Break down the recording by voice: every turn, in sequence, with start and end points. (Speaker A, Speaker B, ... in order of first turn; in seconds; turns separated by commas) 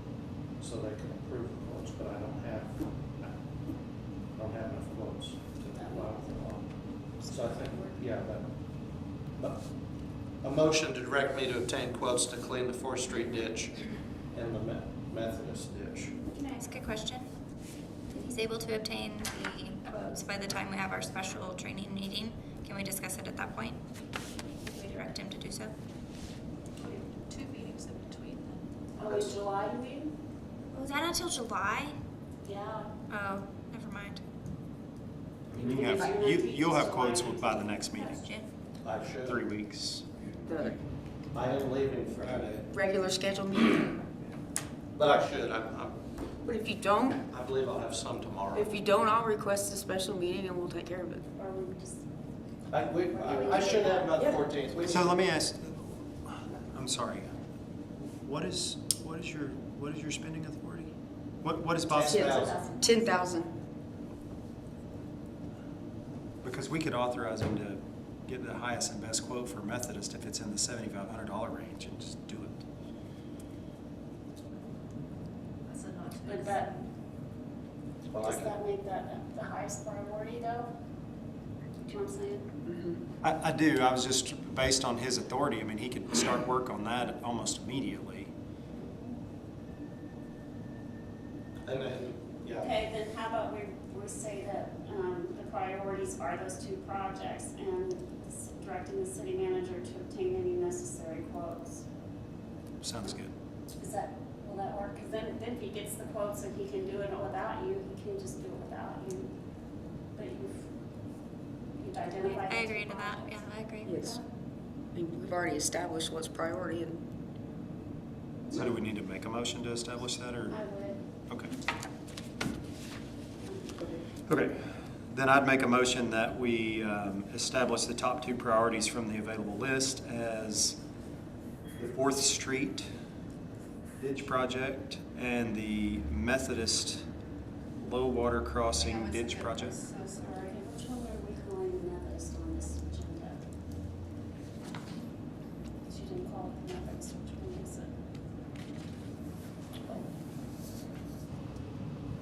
Speaker A: 0.5-3.3, Speaker A: 4.3-16.1, Speaker B: 5.7-6.5, Speaker B: 7.2-8.0, Speaker C: 16.5-17.3, Speaker C: 18.2-23.8, Speaker C: 24.6-25.7, Speaker D: 26.8-28.6, Speaker B: 29.0-30.1, Speaker A: 29.1-29.3, Speaker C: 30.7-32.0, Speaker B: 32.4-32.9, Speaker C: 33.1-34.2, Speaker E: 35.5-38.3, Speaker B: 35.5-38.3, Speaker A: 38.8-39.5, Speaker E: 39.2-40.1, Speaker F: 40.5-40.8, Speaker A: 41.3-42.7, Speaker F: 42.7-44.0, Speaker A: 45.0-46.0, Speaker F: 46.4-47.2, Speaker A: 47.3-48.7, Speaker F: 48.5-51.2, Speaker B: 51.4-52.0, Speaker A: 52.7-55.2, Speaker B: 53.1-54.1, Speaker F: 54.2-54.4, Speaker E: 54.9-57.3, Speaker E: 58.2-62.5, Speaker A: 61.9-62.5, Speaker F: 62.0-63.5, Speaker B: 62.0-63.3, Speaker E: 66.4-72.6, Speaker D: 75.7-76.8, Speaker B: 76.2-76.7, Speaker A: 78.1-78.5, Speaker B: 78.2-80.7, Speaker B: 81.8-82.5, Speaker F: 82.6-83.0, Speaker E: 83.2-88.3, Speaker A: 91.7-92.7, Speaker B: 92.6-101.8, Speaker E: 102.8-103.3, Speaker B: 103.7-109.3, Speaker B: 110.1-110.7, Speaker B: 111.8-114.2, Speaker C: 112.2-114.0, Speaker F: 113.8-114.2, Speaker F: 114.9-117.0, Speaker E: 118.5-120.6, Speaker B: 120.5-121.0, Speaker E: 121.3-121.5, Speaker B: 123.4-124.0, Speaker E: 124.3-130.8, Speaker E: 131.8-132.9, Speaker E: 134.0-137.0, Speaker E: 137.8-139.8, Speaker B: 138.8-143.4, Speaker B: 145.9-147.9